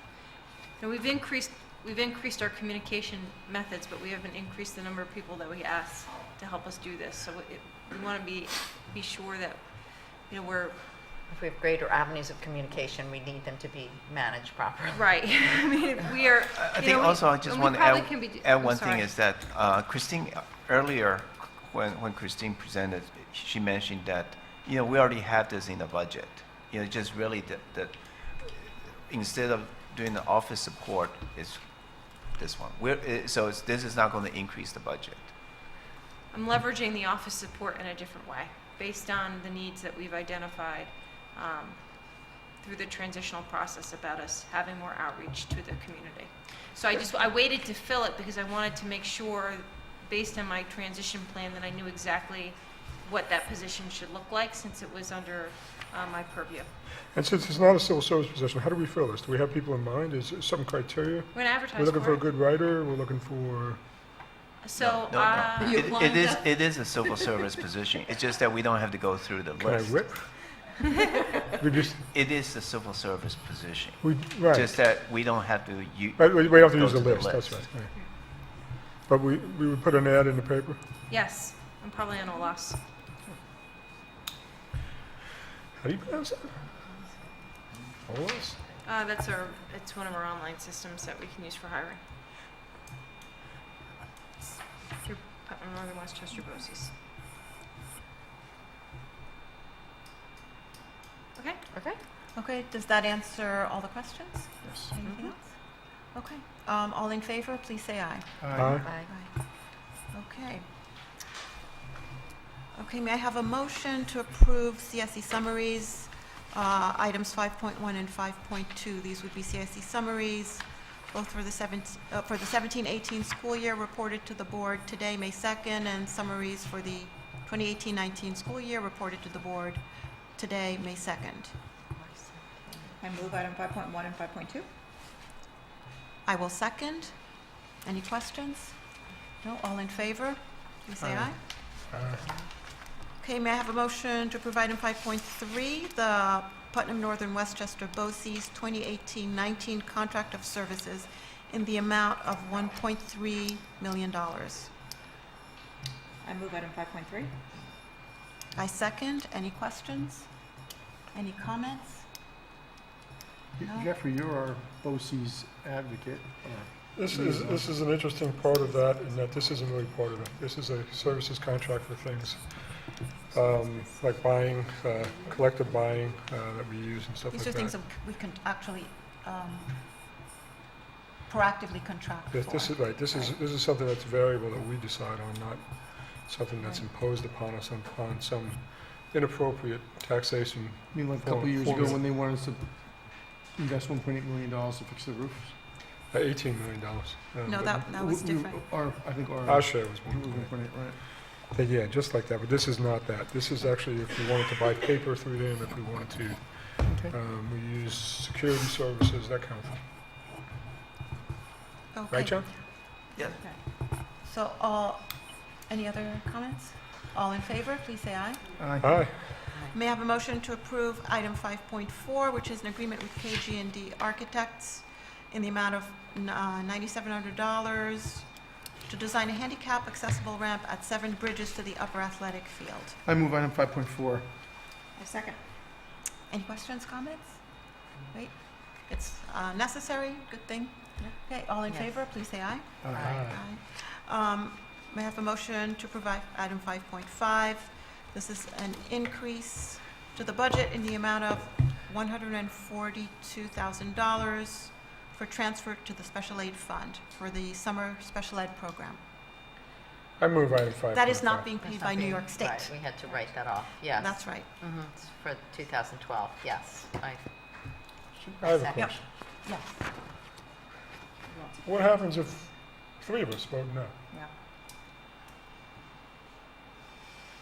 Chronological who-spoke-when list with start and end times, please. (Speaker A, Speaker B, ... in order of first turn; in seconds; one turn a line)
Speaker A: 0.8-10.8
Speaker B: 11.3-15.3
Speaker A: 14.9-19.1
Speaker C: 16.5-35.3
Speaker A: 36.3-56.7
Speaker D: 57.1-63.8
Speaker A: 61.3-62.2
Speaker A: 64.6-66.4
Speaker C: 64.8-70.3
Speaker D: 69.6-70.9
Speaker D: 71.6-72.0
Speaker C: 72.1-77.7
Speaker D: 74.0-74.8
Speaker D: 76.2-78.1
Speaker D: 79.1-80.8
Speaker A: 81.1-82.8
Speaker D: 85.8-86.6
Speaker D: 88.0-88.6
Speaker A: 88.8-92.0
Speaker A: 94.8-96.9
Speaker A: 101.3-101.6
Speaker B: 101.7-102.0
Speaker E: 102.3-110.7
Speaker F: 104.6-104.9
Speaker B: 105.0-105.3
Speaker F: 108.4-108.8
Speaker D: 108.5-108.9
Speaker B: 108.8-109.1
Speaker E: 112.7-131.6
Speaker G: 133.0-134.7
Speaker E: 136.2-138.8
Speaker E: 139.4-141.5
Speaker D: 141.9-142.2
Speaker E: 143.2-154.7
Speaker G: 156.2-157.4
Speaker E: 158.6-160.3
Speaker E: 161.1-162.1
Speaker F: 163.6-167.7
Speaker E: 163.6-163.9
Speaker D: 166.9-177.8
Speaker E: 177.3-179.9
Speaker E: 181.2-183.4
Speaker D: 182.3-192.0
Speaker F: 190.9-195.6
Speaker D: 196.1-197.8
Speaker E: 197.4-198.6
Speaker F: 197.7-201.0
Speaker D: 199.4-209.8
Speaker F: 206.8-207.1
Speaker E: 211.9-212.6
Speaker D: 212.1-212.6
Speaker C: 213.2-213.4
Speaker E: 214.2-218.5
Speaker F: 218.6-219.1
Speaker D: 218.8-219.5
Speaker E: 219.7-233.0
Speaker F: 233.0-234.3
Speaker G: 234.9-235.4
Speaker E: 236.3-259.0
Speaker B: 241.7-242.0
Speaker F: 242.8-243.2
Speaker B: 242.9-243.3
Speaker D: 242.9-243.4
Speaker D: 260.2-261.5
Speaker E: 260.9-262.8
Speaker B: 261.6-267.8
Speaker E: 263.9-264.6
Speaker D: 268.1-269.1
Speaker B: 268.4-268.9
Speaker E: 268.8-269.9
Speaker G: 271.3-271.6
Speaker D: 271.6-273.9